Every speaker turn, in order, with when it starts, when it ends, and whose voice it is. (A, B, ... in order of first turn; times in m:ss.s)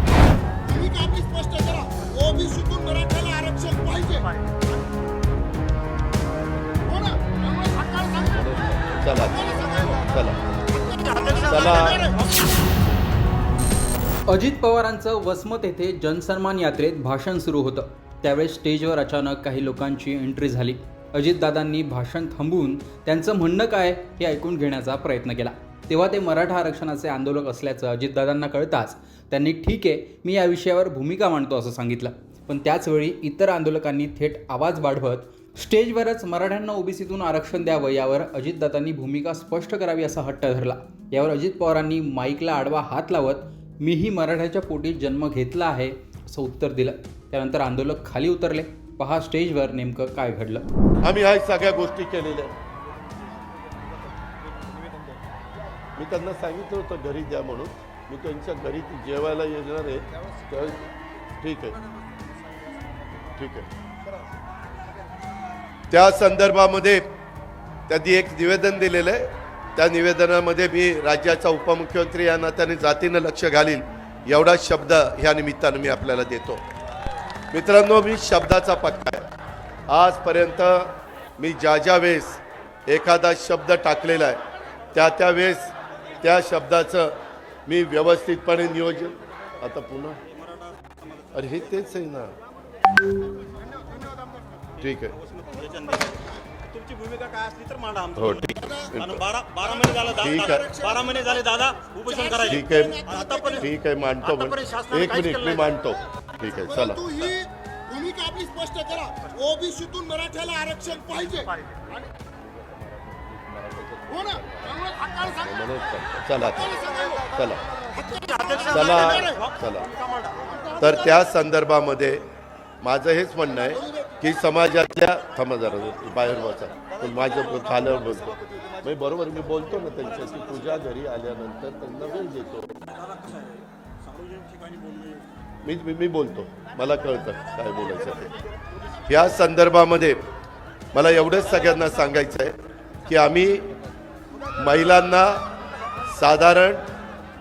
0:00.7-0:04.3 A
0:06.9-0:08.4 A
0:08.3-0:10.4 B
0:09.4-0:10.0 A
0:10.8-0:12.0 A
0:10.9-0:12.2 C
0:11.4-0:12.1 B
0:14.3-0:50.6 D
0:51.0-0:52.5 B
0:56.0-1:00.9 B
1:01.4-1:01.8 B
1:03.4-1:03.7 B
1:05.9-1:07.1 B
1:07.9-1:16.6 B
1:17.5-1:19.3 B
1:19.9-1:24.4 B
1:24.9-1:30.2 B
1:31.3-1:32.3 B
1:34.8-1:35.1 B
1:35.4-1:38.3 C
1:38.2-1:39.2 B
1:39.0-1:43.6 C
1:40.2-1:40.7 B
1:40.6-1:41.0 A
1:42.2-1:43.6 A
1:42.4-1:47.2 B
1:44.2-1:45.7 C
1:46.7-1:51.5 A
1:53.5-1:57.6 B
1:54.1-1:55.3 A
1:56.7-1:57.2 A
1:57.8-1:59.2 A
1:58.2-1:59.5 C
1:58.6-1:59.9 B
2:00.8-2:02.2 B
2:02.8-2:12.8 B
2:15.6-2:18.3 B
2:19.1-2:20.2 B
2:20.9-2:23.7 B
2:24.6-2:25.4 B
2:26.1-2:26.9 B